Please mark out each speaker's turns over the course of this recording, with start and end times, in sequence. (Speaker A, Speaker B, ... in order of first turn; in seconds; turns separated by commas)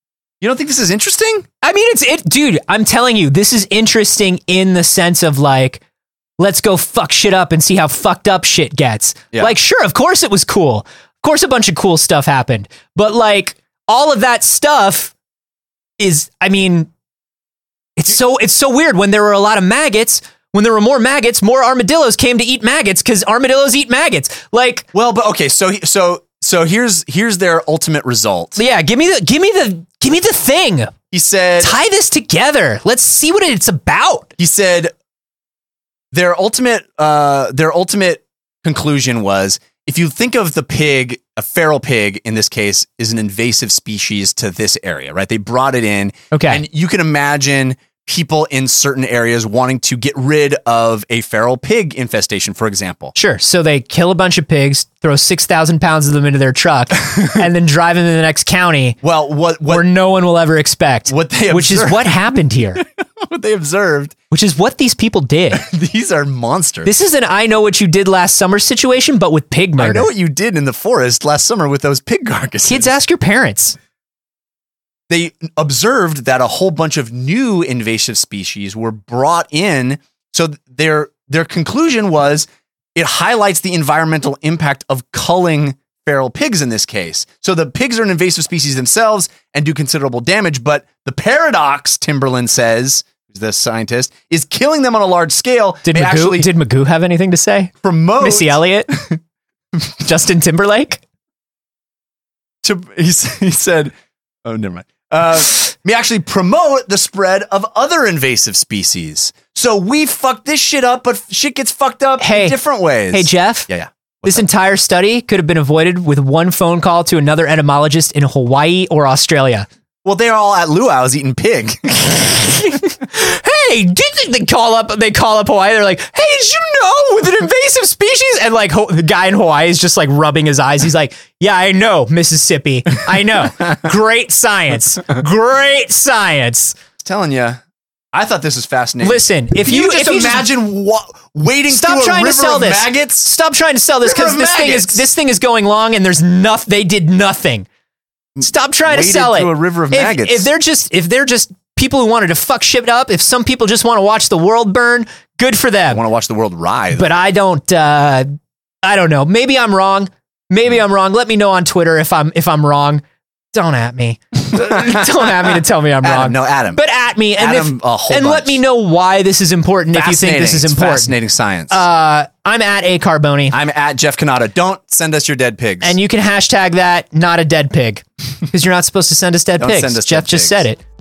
Speaker A: 0.4-1.5, Speaker B: 1.6-5.8, Speaker B: 6.4-15.1, Speaker B: 16.0-16.9, Speaker B: 18.0-24.9, Speaker A: 24.9-28.6, Speaker B: 28.6-30.9, Speaker A: 31.1-31.8, Speaker B: 31.6-34.3, Speaker A: 34.4-34.9, Speaker A: 36.1-53.1, Speaker B: 46.3-46.6, Speaker B: 53.2-59.0, Speaker A: 59.0-59.9, Speaker B: 59.7-62.8, Speaker A: 61.1-64.2, Speaker B: 64.3-65.6, Speaker A: 65.5-66.9, Speaker B: 66.8-70.1, Speaker A: 69.8-72.9, Speaker B: 72.7-73.8, Speaker A: 75.1-96.5, Speaker B: 95.9-98.9, Speaker A: 97.8-99.2, Speaker B: 100.0-101.0, Speaker A: 102.6-103.9, Speaker A: 104.5-114.5, Speaker B: 112.2-112.6, Speaker B: 113.1-113.7, Speaker B: 114.2-119.7, Speaker A: 120.0-122.8, Speaker B: 122.4-136.8, Speaker A: 137.0-137.6, Speaker A: 138.1-143.3, Speaker B: 139.0-140.5, Speaker B: 141.7-147.7, Speaker A: 144.0-145.0, Speaker A: 148.4-150.5, Speaker B: 148.4-156.0, Speaker A: 155.9-157.1, Speaker B: 156.9-158.3, Speaker B: 158.8-163.0, Speaker B: 163.5-171.1, Speaker A: 164.5-166.8, Speaker A: 167.4-168.6, Speaker A: 169.9-171.8, Speaker B: 171.7-173.6, Speaker A: 173.5-176.0, Speaker B: 175.8-180.8, Speaker A: 179.6-180.6